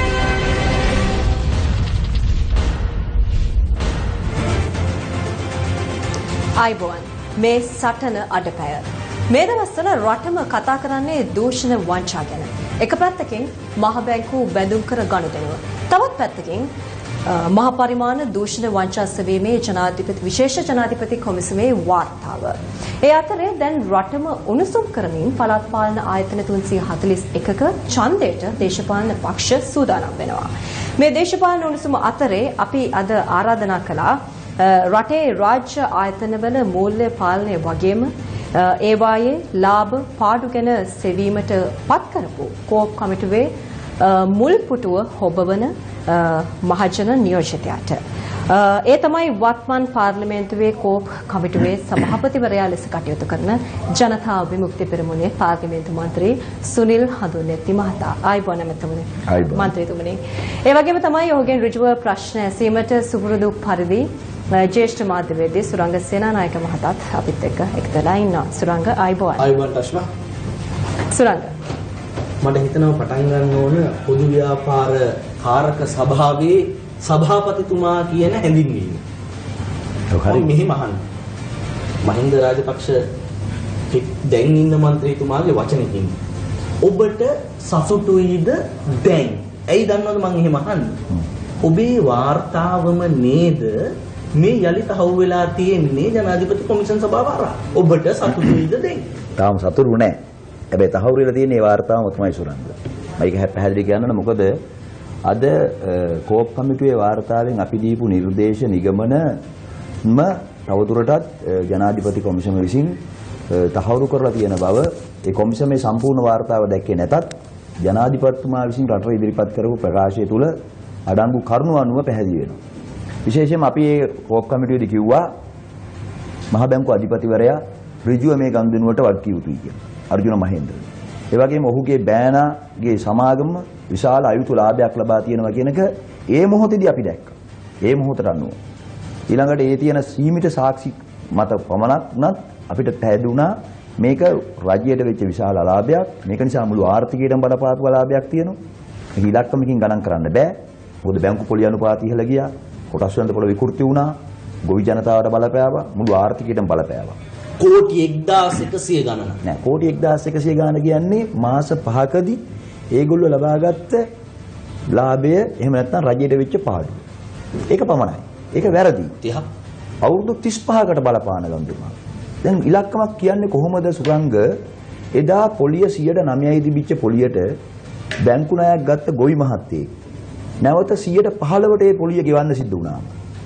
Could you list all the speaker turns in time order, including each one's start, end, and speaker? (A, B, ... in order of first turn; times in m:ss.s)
0:06.6-0:16.7 A
0:17.2-1:09.5 A
0:59.3-0:59.7 B
1:09.4-1:10.1 C
1:11.0-1:11.5 A
1:12.4-1:19.0 C
1:20.1-1:20.5 B
1:20.2-1:21.0 C
1:22.0-1:23.0 C
1:23.9-1:26.2 C
1:26.8-1:31.0 C
1:31.6-1:39.1 C
1:39.4-1:40.2 B
1:40.7-1:44.6 B
1:45.2-1:49.4 B
1:50.0-1:53.0 B
1:53.5-2:00.5 B
2:01.1-2:02.6 B
2:03.2-2:05.3 B
2:06.5-2:18.6 B
2:19.3-2:28.6 B
2:29.1-2:37.2 B
2:37.6-2:39.4 C
2:39.4-2:42.4 B
2:42.9-2:44.0 B
2:44.9-2:47.0 B
2:47.7-2:49.2 B
2:49.2-2:49.5 C
2:50.0-2:54.6 B
2:55.1-2:57.6 B
2:58.2-2:59.9 B
3:00.6-3:03.1 B